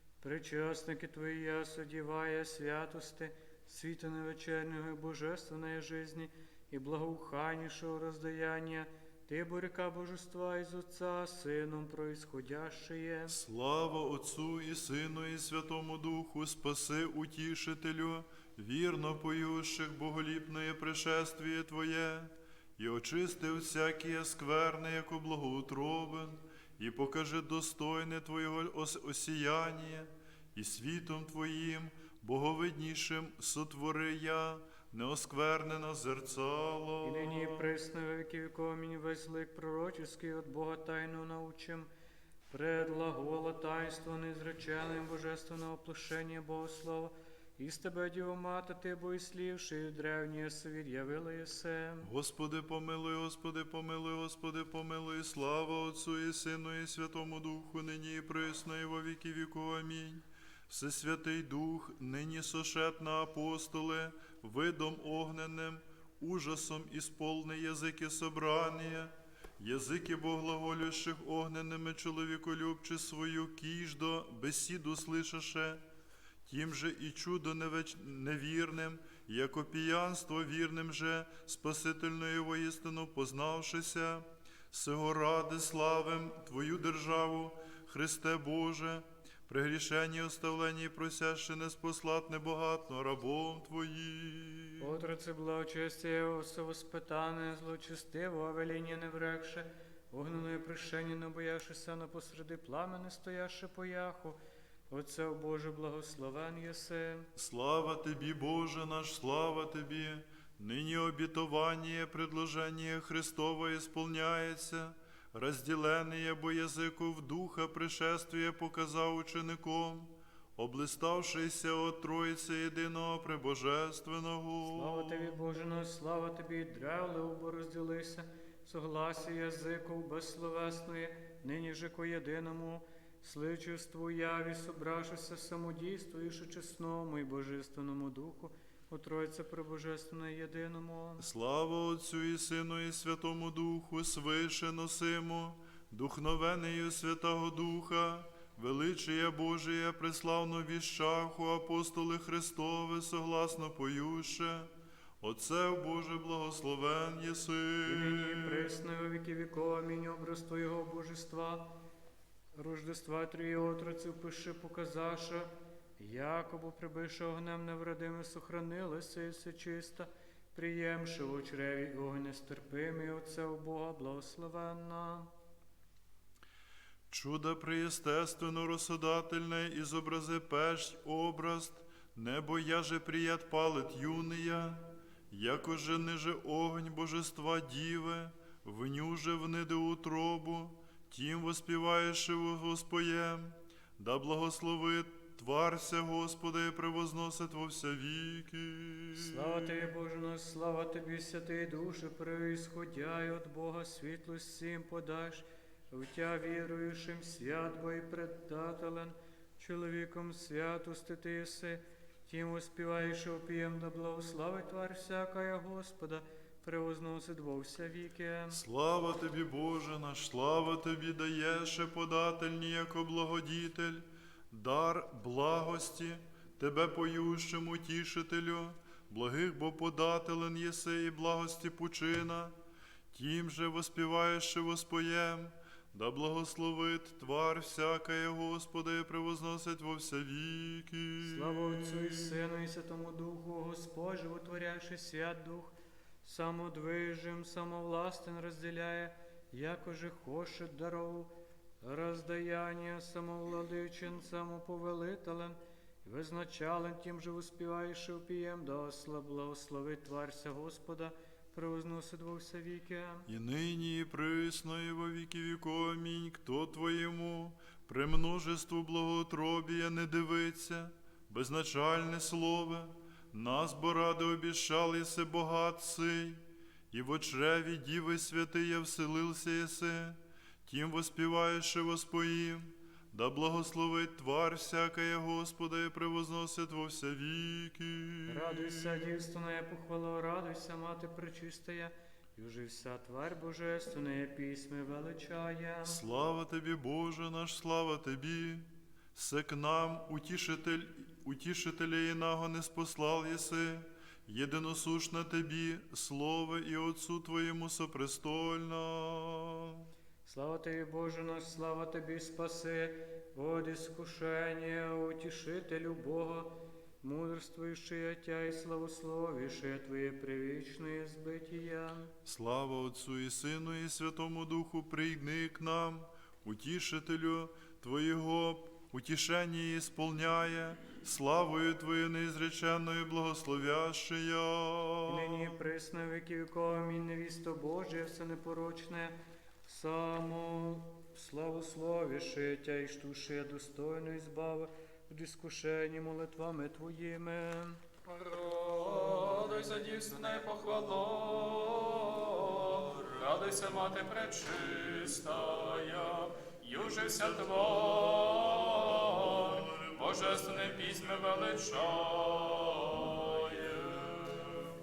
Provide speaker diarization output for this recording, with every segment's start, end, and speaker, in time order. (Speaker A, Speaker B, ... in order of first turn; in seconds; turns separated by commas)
Speaker A: 0.2-13.4, Speaker B: 13.3-37.6, Speaker A: 37.0-41.9, Speaker A: 42.5-52.1, Speaker B: 52.0-75.8, Speaker B: 76.5-94.9, Speaker A: 94.8-104.4, Speaker A: 104.9-107.3, Speaker B: 107.3-125.4, Speaker A: 124.7-141.3, Speaker B: 141.2-158.8, Speaker A: 157.8-161.8, Speaker A: 162.5-175.3, Speaker B: 177.1-199.9, Speaker A: 199.1-218.6, Speaker B: 218.5-232.6, Speaker B: 233.1-242.3, Speaker A: 241.2-263.3, Speaker B: 263.3-289.1, Speaker A: 288.3-296.0, Speaker B: 295.8-309.8, Speaker A: 310.2-322.1, Speaker B: 322.2-335.6, Speaker A: 335.1-347.8, Speaker C: 348.1-364.7